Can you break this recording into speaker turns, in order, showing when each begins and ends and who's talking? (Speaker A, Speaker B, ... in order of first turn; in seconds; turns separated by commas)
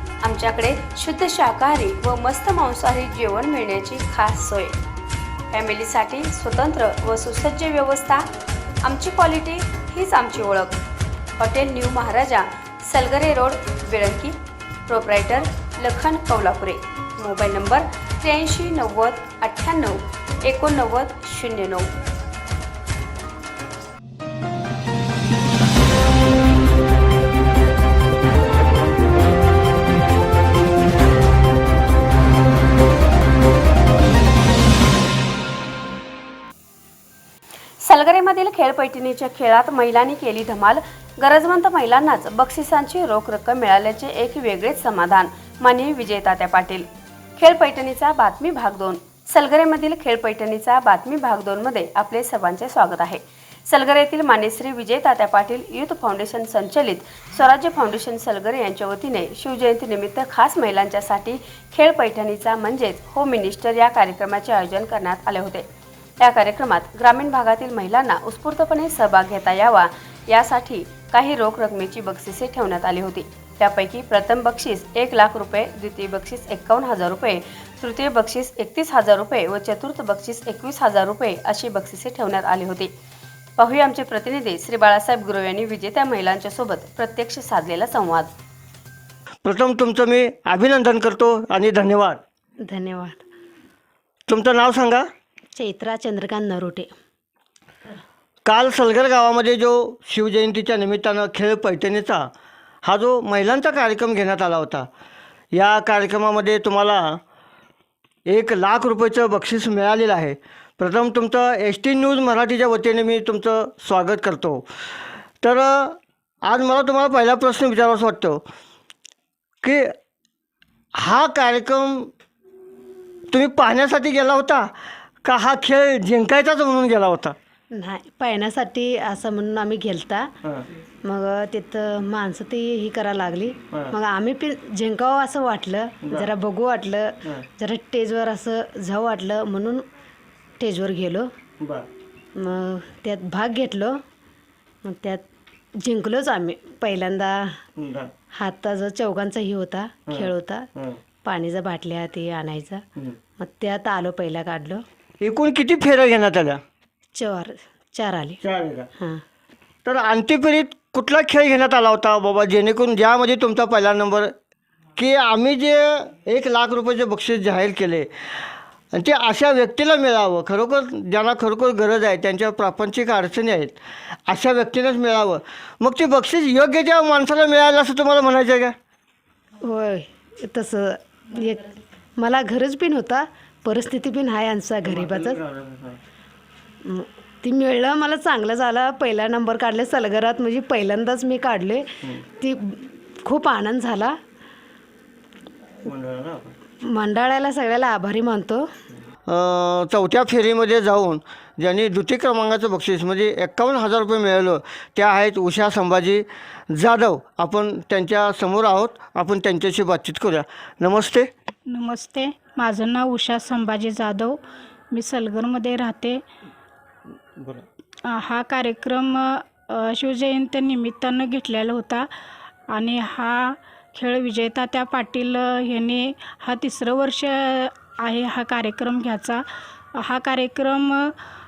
Speaker A: 0.2-4.8, Speaker A: 5.5-8.3, Speaker A: 8.8-10.8, Speaker A: 11.4-14.3, Speaker A: 14.9-21.9, Speaker A: 37.8-46.9, Speaker A: 47.4-65.7, Speaker A: 66.2-82.9, Speaker A: 83.6-88.3, Speaker B: 89.5-92.2, Speaker C: 92.7-93.2, Speaker B: 94.3-95.1, Speaker C: 95.6-96.9, Speaker B: 98.5-102.3, Speaker B: 102.8-104.9, Speaker B: 105.5-107.2, Speaker B: 108.3-114.7, Speaker B: 115.4-118.4, Speaker B: 119.6-119.9, Speaker B: 121.0-122.1, Speaker B: 123.3-124.7, Speaker B: 125.2-127.4, Speaker C: 127.7-130.3, Speaker C: 131.1-139.8, Speaker C: 140.6-141.3, Speaker B: 141.6-141.9, Speaker C: 142.4-144.0, Speaker C: 144.8-145.2, Speaker C: 145.8-147.6, Speaker B: 147.8-148.1, Speaker C: 148.4-150.7, Speaker B: 150.1-151.0, Speaker C: 151.2-152.8, Speaker C: 153.4-154.8, Speaker B: 155.2-156.6, Speaker C: 157.2-158.4, Speaker B: 158.4-158.9, Speaker B: 159.8-164.3, Speaker B: 165.0-173.8, Speaker B: 174.3-178.8, Speaker C: 179.6-185.4, Speaker B: 184.9-186.0, Speaker C: 186.8-194.2, Speaker B: 195.8-196.6, Speaker C: 196.9-198.7, Speaker B: 199.3-211.3, Speaker D: 211.7-214.4, Speaker D: 214.9-216.2, Speaker B: 217.4-217.7, Speaker D: 218.1-222.1, Speaker D: 222.7-229.4, Speaker D: 230.0-231.1